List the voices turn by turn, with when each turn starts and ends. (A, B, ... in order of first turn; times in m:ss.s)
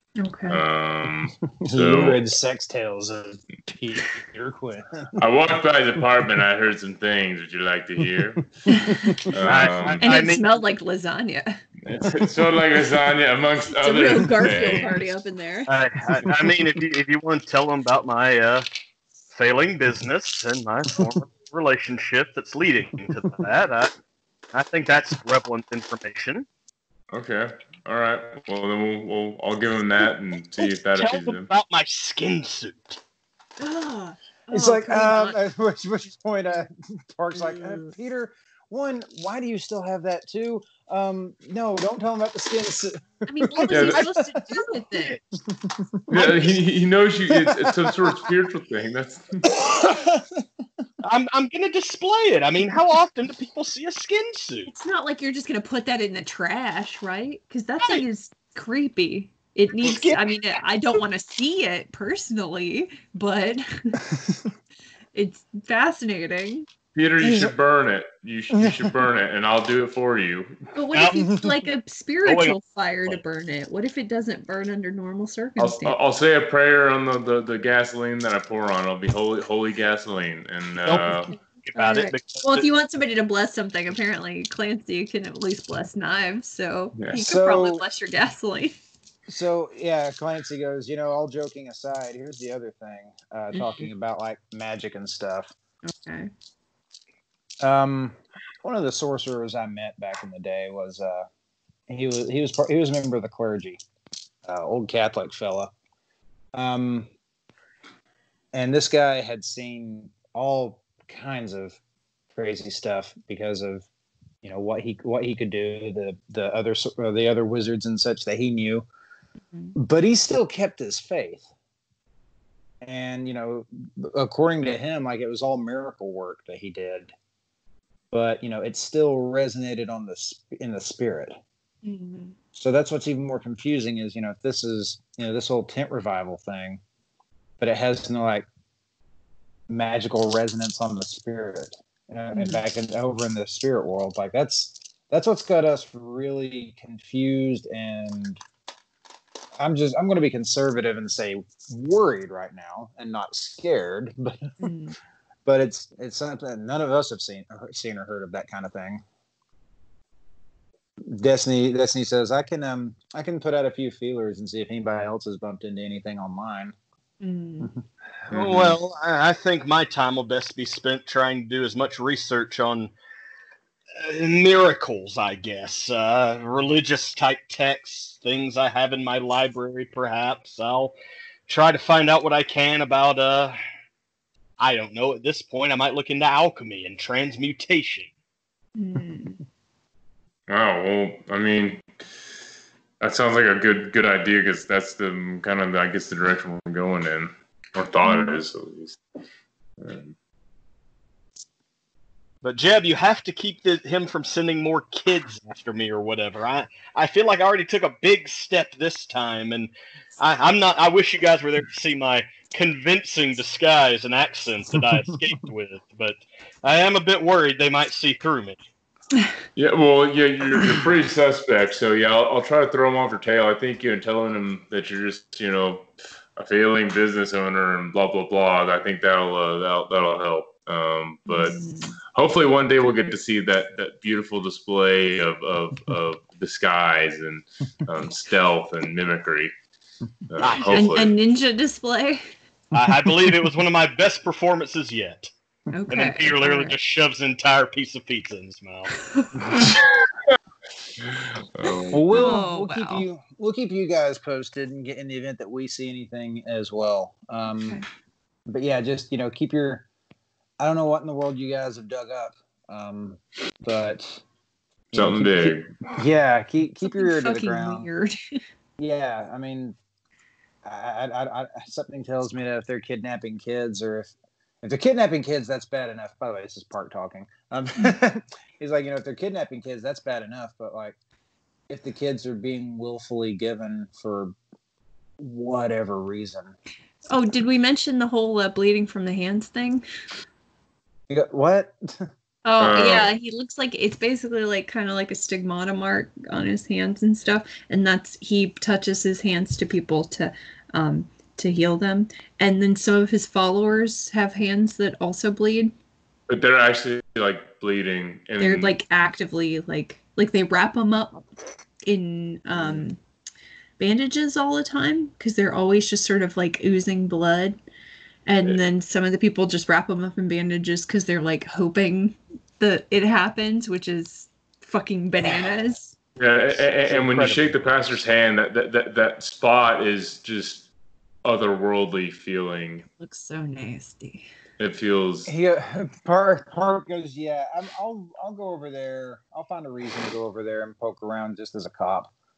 0:00.2-0:00.6 A
0:00.5-0:02.2 B
0:01.6-0:05.2 C
0:05.2-0:10.1 B
0:08.7-0:09.2 A
0:08.7-0:09.7 C
0:09.4-0:10.4 D
0:10.0-0:11.6 A
0:11.8-0:15.0 B
0:13.8-0:15.7 A
0:15.7-0:18.7 D
0:19.3-0:23.9 D
0:24.5-0:26.5 D
0:27.1-0:31.5 B
0:30.6-0:33.0 D
0:33.6-0:35.4 A
0:34.5-0:44.5 C
0:43.3-0:45.2 A
0:43.7-0:44.0 B
0:44.8-0:45.1 D
0:45.5-0:46.4 C
0:46.1-0:49.6 B
0:47.3-0:48.2 C
0:49.4-0:50.5 C
0:51.0-0:54.7 D
0:54.7-1:04.0 A
0:59.8-1:00.4 D
1:04.1-1:04.5 C
1:05.1-1:06.7 A
1:06.9-1:10.6 B
1:07.2-1:07.5 A
1:10.8-1:16.0 A
1:10.9-1:11.4 D
1:12.2-1:13.2 D
1:15.6-1:21.3 B
1:20.8-1:22.7 D
1:21.8-1:28.8 A
1:27.1-1:27.8 C
1:29.3-1:35.5 C
1:35.9-1:36.3 A
1:37.6-1:41.3 C
1:41.9-1:43.8 C
1:44.4-1:45.7 C
1:46.6-1:47.1 C
1:48.5-1:51.8 C
1:52.4-1:53.9 C
1:54.4-1:58.9 C
1:59.8-2:01.5 C
2:02.8-2:07.1 C
2:08.1-2:11.4 C
2:11.8-2:12.4 A
2:12.5-2:16.8 C
2:17.6-2:18.5 C
2:19.7-2:28.4 C
2:22.3-2:22.6 A
2:29.6-2:34.5 C
2:34.6-2:35.0 A
2:35.5-2:39.0 C
2:41.1-2:46.8 C
2:47.2-2:47.7 A
2:48.3-2:48.7 B
2:48.3-2:52.9 D
2:54.0-3:00.9 D
3:01.5-3:03.6 D
3:04.6-3:08.1 D
3:08.8-3:09.4 A
3:10.5-3:11.9 B
3:13.0-3:19.0 B
3:18.0-3:18.4 A
3:19.8-3:20.1 B
3:22.4-3:38.6 D
3:39.6-3:51.6 B
3:51.3-3:52.0 A
3:52.1-3:59.5 B
4:00.3-4:01.1 B
4:00.4-4:01.1 D
4:00.7-4:02.3 A
4:02.7-4:05.3 D
4:05.7-4:06.8 A
4:05.9-4:08.9 D
4:11.0-4:12.0 B
4:11.9-4:17.8 C
4:12.1-4:13.0 A
4:17.5-4:17.9 A
4:18.5-4:19.8 C
4:20.6-4:24.2 C
4:24.9-4:27.9 C
4:24.9-4:25.7 B
4:26.8-4:28.4 A
4:28.8-4:29.8 C
4:30.6-4:41.0 C
4:41.7-4:44.4 C
4:45.2-4:46.6 C
4:47.1-4:49.8 A
4:51.1-4:52.1 C
4:52.4-5:05.7 A
4:52.6-4:53.1 B
5:06.3-5:08.8 B
5:08.4-5:11.2 A
5:11.9-5:13.0 A
5:12.6-5:12.9 B
5:13.8-5:17.6 A
5:18.3-5:26.0 A
5:26.2-5:30.7 B
5:26.9-5:27.5 C
5:31.2-5:32.8 B
5:33.0-5:34.3 A
5:34.6-5:35.3 B
5:35.3-5:42.1 C